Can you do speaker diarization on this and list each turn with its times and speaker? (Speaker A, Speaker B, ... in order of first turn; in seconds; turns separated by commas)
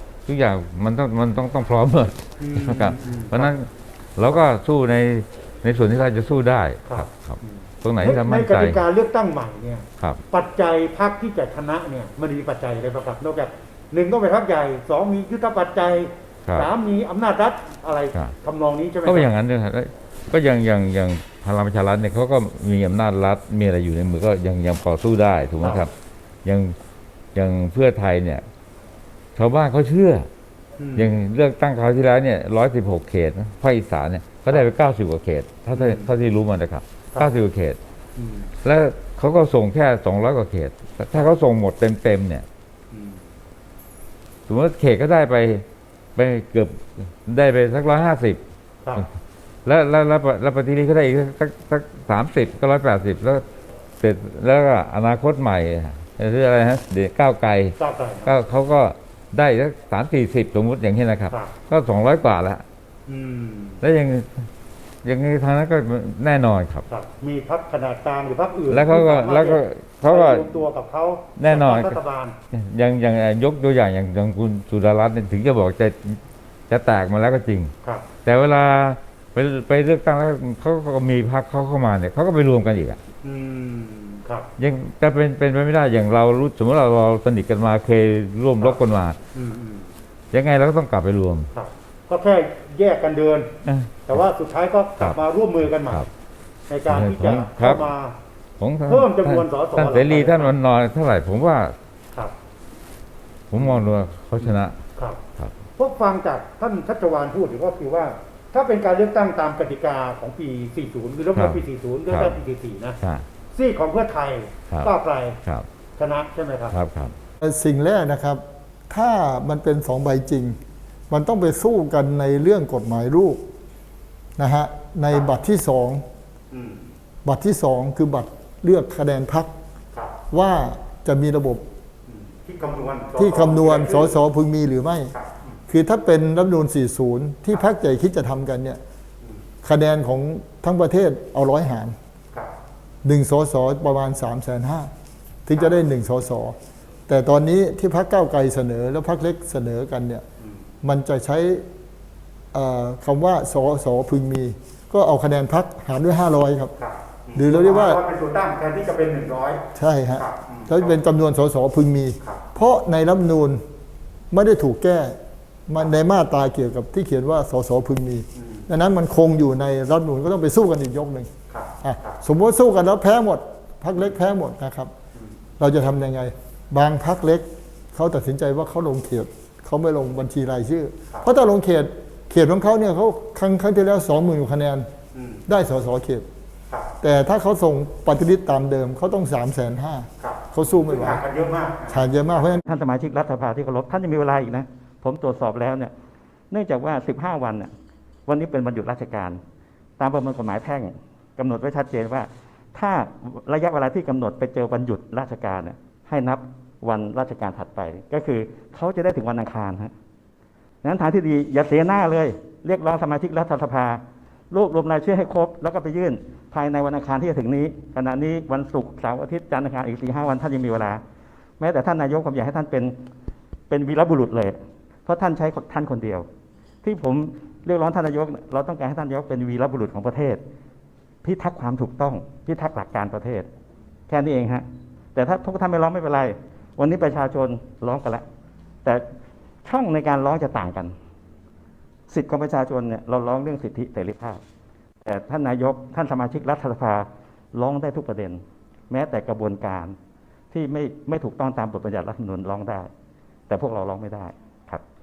Speaker A: 0.3-8.8, Speaker B: 2.4-3.5, Speaker B: 6.9-19.3, Speaker A: 19.0-25.9, Speaker B: 25.6-25.9, Speaker A: 26.4-26.8, Speaker A: 27.3-28.4, Speaker A: 29.4-30.3, Speaker B: 30.8-31.1, Speaker A: 30.9-37.8, Speaker B: 35.7-36.1, Speaker B: 38.2-38.5, Speaker A: 38.6-42.5, Speaker B: 42.9-43.2, Speaker A: 44.5-48.4, Speaker A: 49.6-53.4, Speaker A: 54.0-62.6, Speaker B: 57.8-58.4, Speaker B: 63.1-63.8, Speaker A: 63.8-64.4, Speaker A: 65.0-66.8, Speaker B: 66.9-72.4, Speaker A: 68.7-70.5, Speaker A: 71.4-72.0, Speaker A: 72.5-77.7, Speaker A: 78.2-83.0, Speaker B: 83.2-84.5, Speaker A: 84.6-89.2, Speaker B: 89.3-89.9, Speaker A: 90.3-91.5, Speaker B: 91.5-93.5, Speaker A: 93.6-94.2, Speaker B: 94.0-96.0, Speaker B: 96.7-98.2, Speaker A: 96.9-97.9, Speaker A: 98.6-101.8, Speaker B: 98.9-100.5, Speaker A: 103.5-104.8, Speaker B: 103.6-103.8, Speaker B: 104.4-105.2, Speaker B: 105.8-113.0, Speaker A: 111.3-112.3, Speaker B: 113.5-115.4, Speaker B: 116.0-116.8, Speaker A: 116.7-117.1, Speaker C: 117.4-120.6, Speaker C: 121.1-123.4, Speaker C: 124.4-126.0, Speaker B: 126.5-126.9, Speaker C: 127.2-129.5, Speaker C: 130.3-131.6, Speaker B: 132.1-134.2, Speaker C: 133.2-135.1, Speaker B: 135.1-135.6, Speaker C: 135.7-138.8, Speaker C: 139.6-141.9, Speaker C: 143.0-144.9, Speaker C: 145.4-146.6, Speaker C: 147.1-150.2, Speaker C: 150.8-151.7, Speaker C: 152.5-156.7, Speaker B: 156.8-161.0, Speaker C: 157.3-158.0, Speaker C: 159.7-163.6, Speaker C: 164.3-174.9, Speaker B: 171.5-172.2, Speaker C: 175.6-184.9, Speaker B: 185.1-185.4, Speaker C: 185.5-186.3, Speaker C: 187.0-191.2, Speaker B: 190.2-192.1, Speaker C: 191.9-192.6, Speaker D: 192.7-195.9, Speaker D: 196.5-197.7, Speaker D: 198.3-199.4, Speaker D: 200.0-209.9, Speaker D: 210.8-221.0, Speaker D: 221.6-223.0, Speaker D: 223.7-226.3, Speaker D: 226.8-230.4, Speaker D: 231.2-233.5, Speaker D: 234.1-238.2, Speaker D: 239.6-240.9, Speaker D: 242.1-244.4, Speaker D: 245.0-249.9, Speaker D: 250.5-252.9, Speaker D: 253.5-254.8